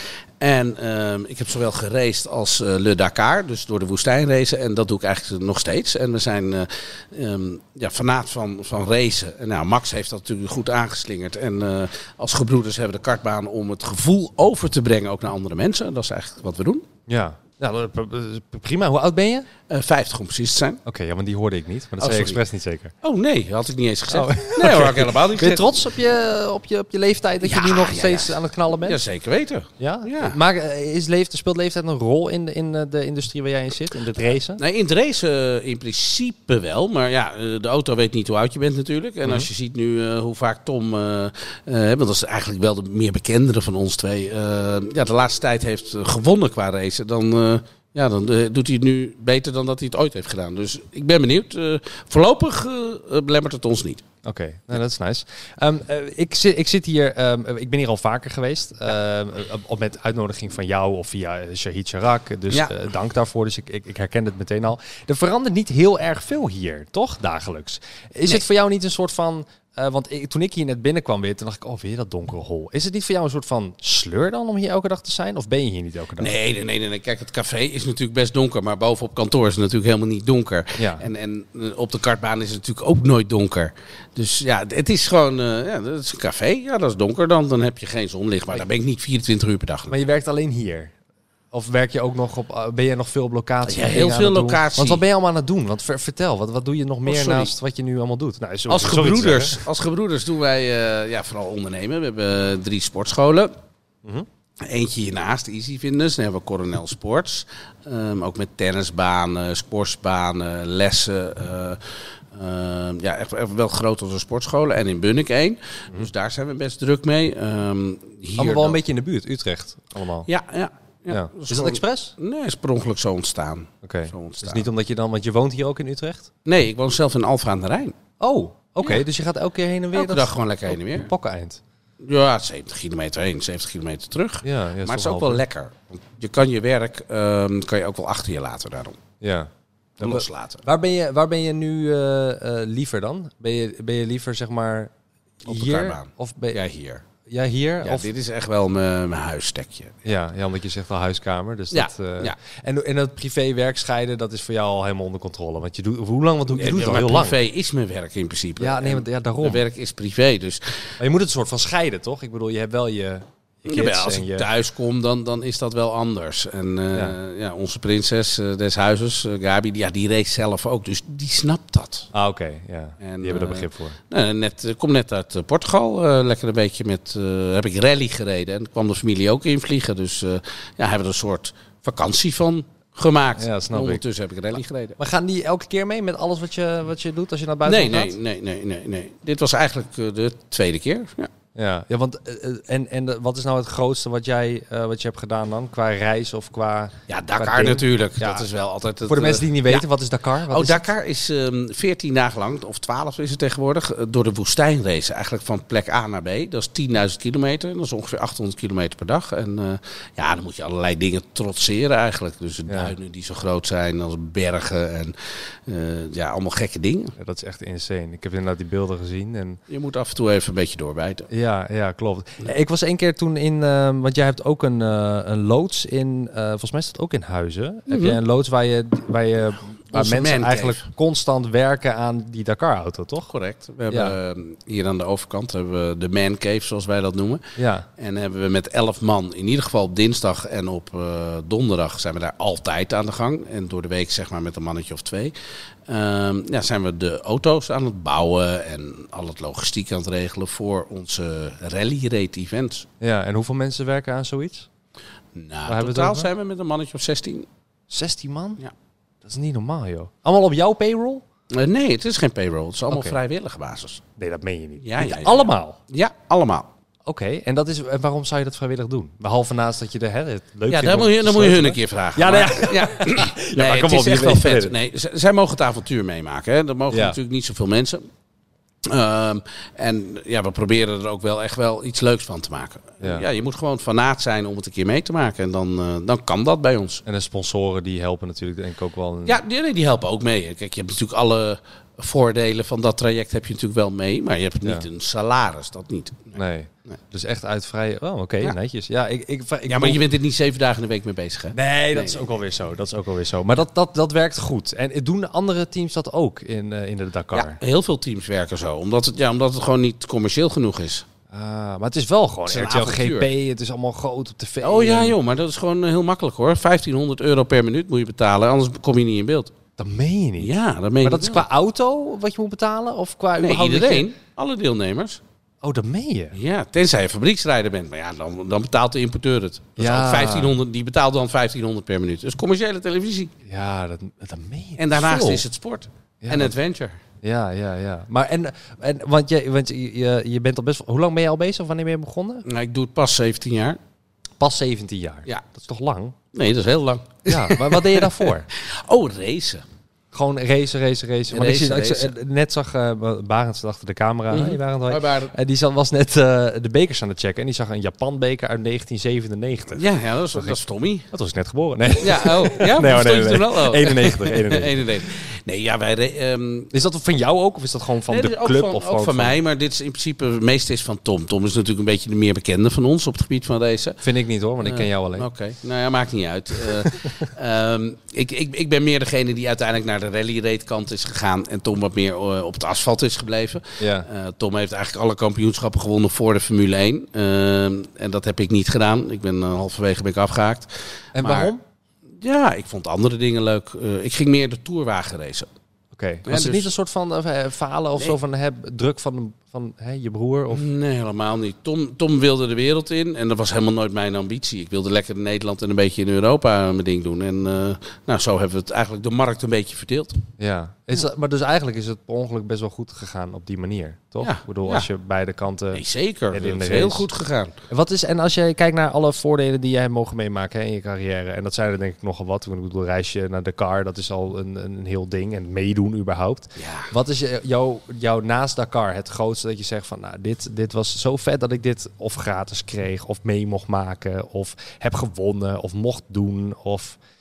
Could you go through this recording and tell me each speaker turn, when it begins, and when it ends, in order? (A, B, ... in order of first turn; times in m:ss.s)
0:00.4-0:16.9 A
0:17.1-0:19.5 B
0:19.7-0:20.8 A
0:20.8-0:22.9 B
0:22.0-0:22.4 A
0:23.0-0:25.8 A
0:24.1-0:29.0 B
0:27.4-0:30.4 A
0:29.8-0:34.6 B
0:34.6-0:54.0 A
0:54.2-1:16.4 B
1:16.2-1:30.0 A
1:20.8-1:21.0 B
1:29.9-1:30.9 B
1:31.5-1:39.6 B
1:33.6-1:35.0 A
1:37.0-1:37.5 A
1:38.7-1:43.5 A
1:44.6-1:51.8 A
1:52.3-1:58.8 A
1:58.4-2:00.3 B
2:00.3-2:04.7 A
2:01.1-2:02.1 B
2:03.8-2:06.3 B
2:06.4-2:08.0 A
2:08.2-2:11.6 B
2:09.9-2:11.1 A
2:12.0-2:19.0 A
2:14.4-2:15.4 B
2:19.2-2:24.9 B
2:20.0-2:20.6 A
2:25.4-2:26.6 B
2:25.5-2:27.0 A
2:27.2-2:28.1 B
2:27.8-2:30.0 A
2:30.0-2:37.4 B
2:31.7-2:32.4 A
2:36.5-2:40.8 A
2:38.6-2:39.6 B
2:41.0-2:44.5 B
2:43.7-2:52.1 A
2:52.1-2:54.0 B
2:53.0-3:05.0 A
3:03.4-3:04.0 B
3:05.0-3:08.2 B
3:07.6-3:11.3 A
3:11.6-3:18.4 B
3:17.1-3:19.8 A
3:19.1-3:20.9 B
3:20.5-3:35.2 A
3:32.7-3:33.0 B
3:35.7-3:37.2 A
3:37.2-3:39.6 B
3:39.7-3:41.3 A
3:41.3-3:53.3 B
3:47.9-3:48.2 A
3:49.9-3:50.9 A
3:53.3-4:05.4 A
3:53.9-3:54.2 B
3:57.6-3:57.9 B
4:05.9-4:12.9 A
4:13.0-4:14.7 B
4:15.3-4:17.5 A
4:15.7-4:16.3 B
4:17.9-4:18.6 B
4:19.2-4:21.2 B
4:21.5-4:24.0 A
4:22.9-4:23.2 B
4:24.2-4:25.8 B
4:24.8-4:26.7 A
4:27.0-4:34.8 B
4:30.7-4:38.1 A
4:36.9-4:37.2 B
4:38.8-4:47.0 A
4:47.0-4:49.4 B
4:49.3-4:57.0 A
4:56.4-5:00.0 B
4:59.7-5:02.2 A
5:01.5-5:07.6 B
5:07.3-5:11.0 A
5:11.3-5:15.2 B
5:12.5-5:13.3 A
5:14.6-5:19.6 A
5:19.8-5:24.1 B
5:20.4-5:21.4 A
5:23.4-5:25.2 A
5:25.6-5:26.4 B
5:26.3-5:33.4 A
5:29.8-5:30.5 B
5:33.4-5:35.4 B
5:34.8-5:37.0 A
5:36.2-5:36.5 B
5:37.2-5:42.4 B
5:42.4-5:43.8 A
5:44.4-5:46.2 B
5:46.3-5:49.6 A
5:47.3-5:48.5 B
5:50.1-6:00.6 B
5:51.3-5:52.2 A
5:54.3-5:55.3 A
5:59.7-6:01.1 A
6:01.1-6:04.8 B
6:02.0-6:06.7 A
6:06.7-6:09.4 B
6:08.1-6:14.0 A
6:14.0-6:15.3 B
6:14.6-6:31.5 A
6:16.7-6:17.1 B
6:23.8-6:24.1 B
6:31.2-6:31.6 B
6:32.2-6:35.5 A
6:35.9-6:40.7 B
6:36.3-6:36.7 A
6:40.5-6:50.2 A
6:50.4-6:57.1 B
6:54.2-6:54.9 A
6:55.7-6:57.6 A
6:57.7-7:17.0 B
7:06.6-7:06.9 A